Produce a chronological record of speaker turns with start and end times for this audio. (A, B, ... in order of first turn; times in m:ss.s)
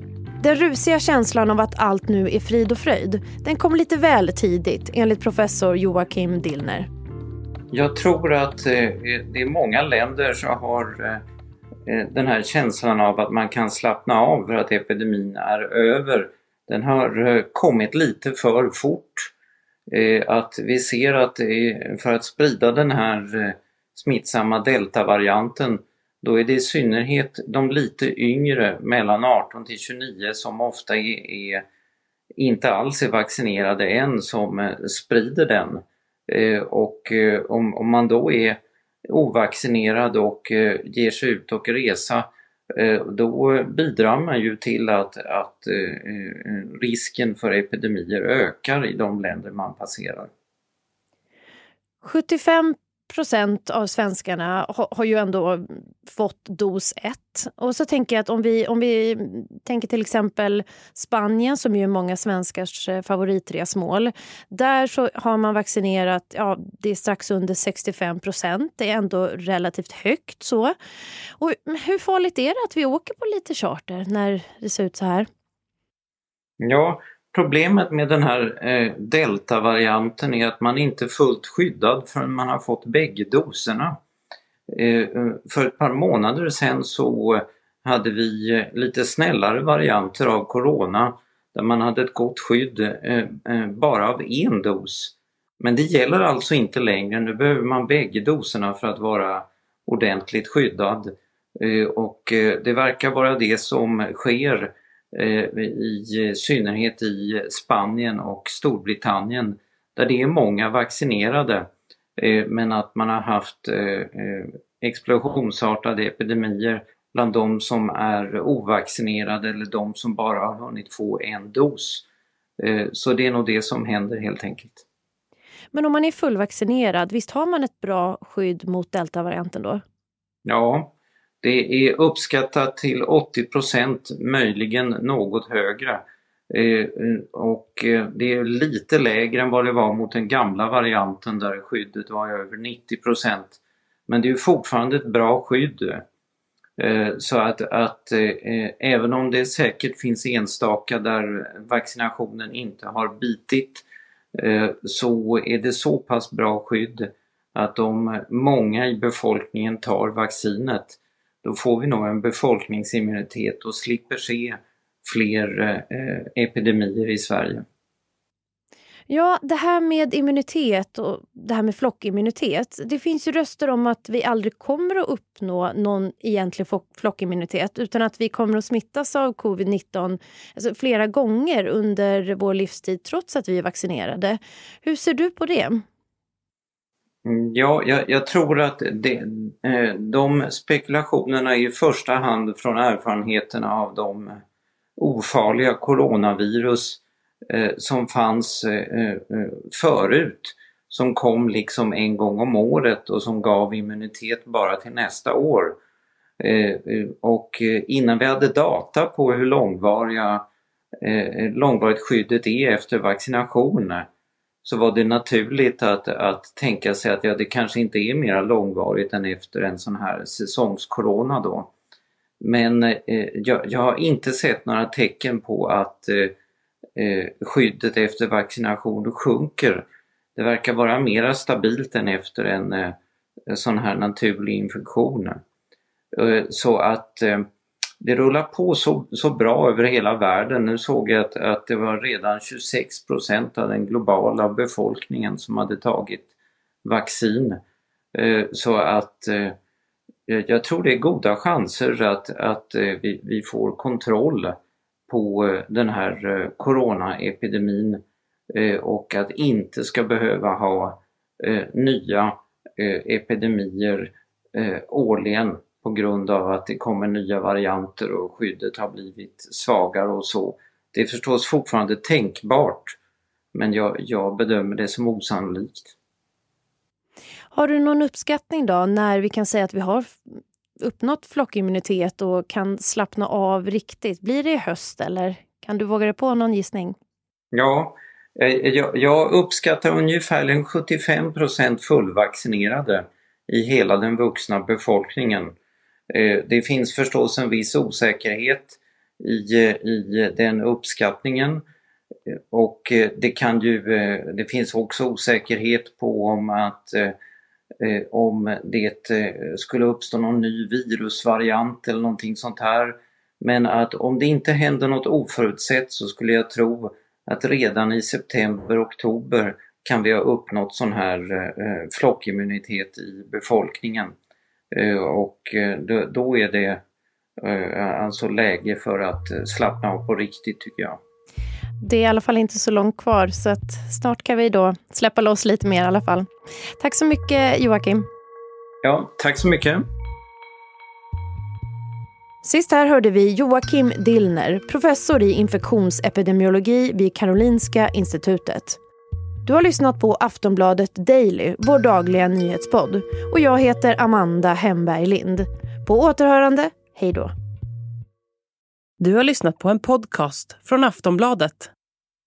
0:00.4-0:06.9 A
0:07.7-0:11.2 B
0:11.9-0:19.3 B
0:19.9-0:31.6 B
0:32.4-0:50.3 B
0:52.0-1:10.7 A
1:11.4-1:15.3 A
1:16.6-1:23.9 B
1:24.7-2:02.0 B
2:02.6-2:04.8 B
2:05.7-2:09.8 A
2:10.4-2:26.0 B
2:26.8-2:47.6 B
2:49.1-3:05.8 A
3:07.2-3:14.4 B
3:15.0-3:25.8 B
3:26.4-3:30.5 B
3:31.0-3:34.0 B
3:34.6-3:41.7 B
3:42.4-3:46.3 B
3:47.0-3:52.9 B
3:53.5-3:55.4 B
3:56.1-3:57.4 B
3:58.0-4:06.3 B
4:06.8-4:07.6 B
4:08.1-4:09.5 B
4:10.3-4:14.6 B
4:15.1-4:33.0 B
4:33.5-4:35.9 B
4:37.5-4:40.2 A
4:40.8-4:47.0 A
4:47.5-4:55.5 B
4:56.1-5:01.6 B
5:02.3-5:07.1 B
5:07.8-5:24.1 B
5:24.7-5:26.8 B
5:27.4-5:31.0 B
5:31.8-5:38.0 A
5:38.8-5:39.8 B
5:42.4-5:48.8 A
5:49.4-5:57.3 A
5:59.0-6:01.7 C